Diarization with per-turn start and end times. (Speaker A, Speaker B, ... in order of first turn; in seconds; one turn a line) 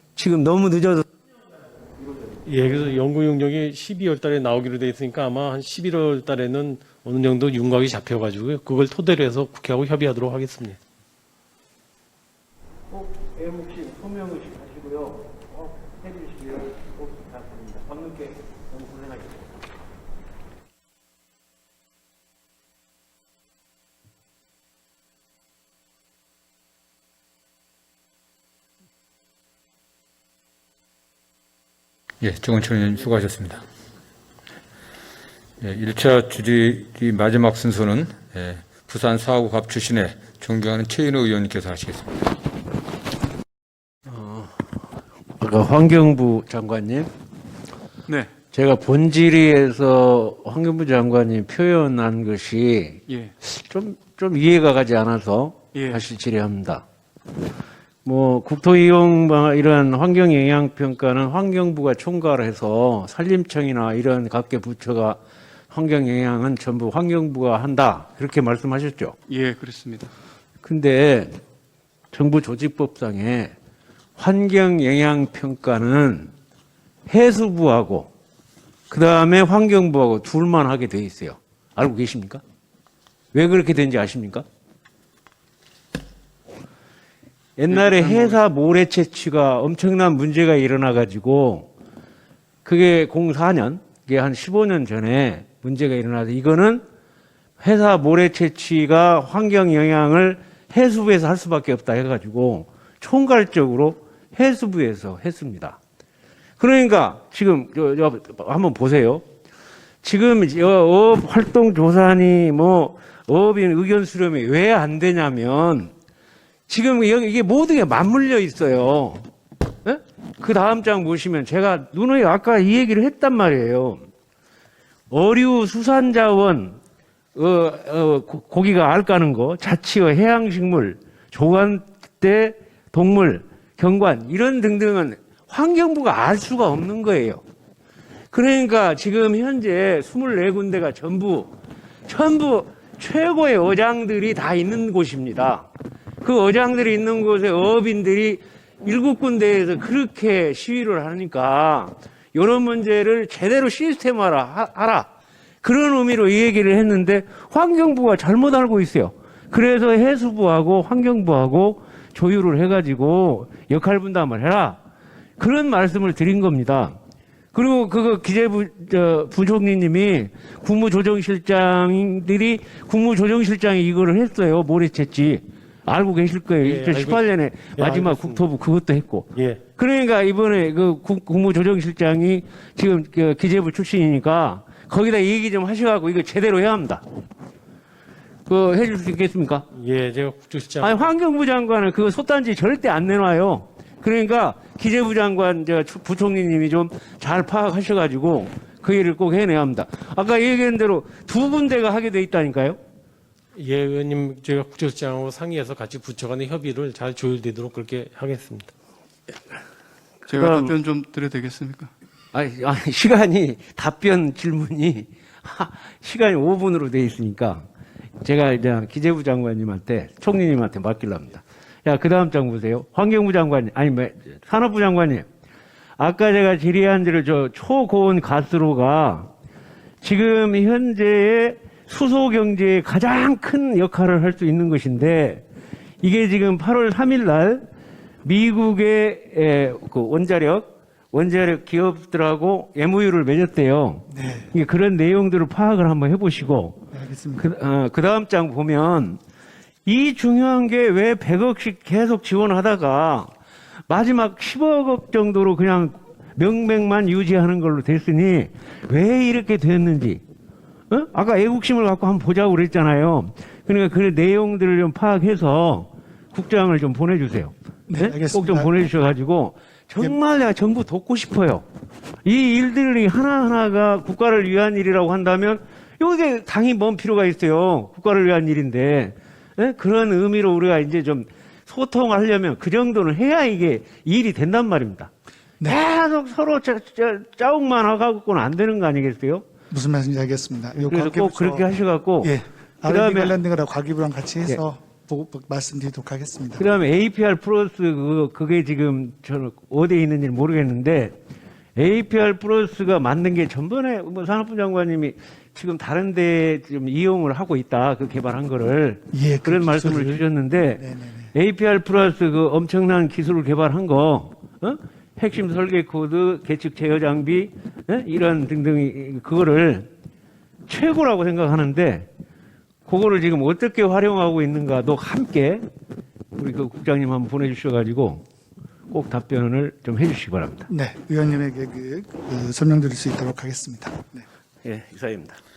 Speaker A: 0.1-1.1
Speaker B: 2.4-10.8
Speaker A: 12.9-19.4
Speaker C: 32.2-33.6
Speaker C: 35.6-42.3
Speaker A: 44.1-44.5
Speaker A: 45.4-47.1
Speaker A: 48.5-56.8
Speaker D: 53.1-53.3
Speaker D: 55.7-56.0
Speaker A: 58.0-65.2
Speaker A: 65.7-69.2
Speaker D: 69.3-70.1
Speaker A: 70.6-71.4
Speaker A: 72.1-73.5
Speaker A: 74.2-76.3
Speaker A: 77.1-78.1
Speaker A: 78.9-82.4
Speaker A: 83.3-84.4
Speaker A: 87.6-91.7
Speaker D: 87.7-88.3
Speaker A: 92.6-96.8
Speaker A: 97.6-105.8
Speaker A: 106.6-109.2
Speaker A: 110.0-115.9
Speaker A: 116.7-119.2
Speaker A: 119.8-124.0
Speaker A: 125.1-126.8
Speaker A: 127.3-137.4
Speaker A: 138.3-141.5
Speaker A: 142.1-145.7
Speaker A: 146.2-155.1
Speaker A: 155.6-164.8
Speaker A: 165.4-167.0
Speaker A: 167.5-187.0
Speaker B: 176.6-178.4
Speaker B: 179.3-179.6
Speaker A: 188.5-189.7
Speaker B: 189.7-191.1
Speaker A: 190.8-202.8
Speaker B: 203.6-208.7
Speaker D: 210.2-211.9
Speaker A: 210.3-210.7
Speaker A: 212.3-217.6
Speaker A: 218.2-225.2
Speaker A: 226.0-229.3
Speaker A: 230.0-235.4
Speaker A: 236.0-237.6
Speaker A: 238.2-246.8
Speaker E: 244.1-244.5
Speaker E: 246.9-247.5
Speaker A: 247.4-249.2
Speaker A: 249.8-253.3
Speaker A: 253.9-260.2
Speaker A: 260.9-271.6
Speaker E: 267.9-268.7
Speaker A: 272.2-285.1
Speaker A: 285.6-289.4
Speaker E: 289.7-291.6
Speaker A: 290.8-292.3
Speaker E: 292.2-296.6
Speaker A: 292.8-293.4
Speaker A: 296.6-301.1
Speaker A: 301.8-310.8
Speaker E: 309.1-310.2
Speaker E: 310.7-311.3
Speaker A: 311.3-319.9
Speaker A: 320.7-322.1
Speaker A: 322.9-325.6
Speaker A: 326.3-328.2
Speaker A: 328.9-330.6
Speaker E: 330.7-334.2
Speaker A: 334.6-335.4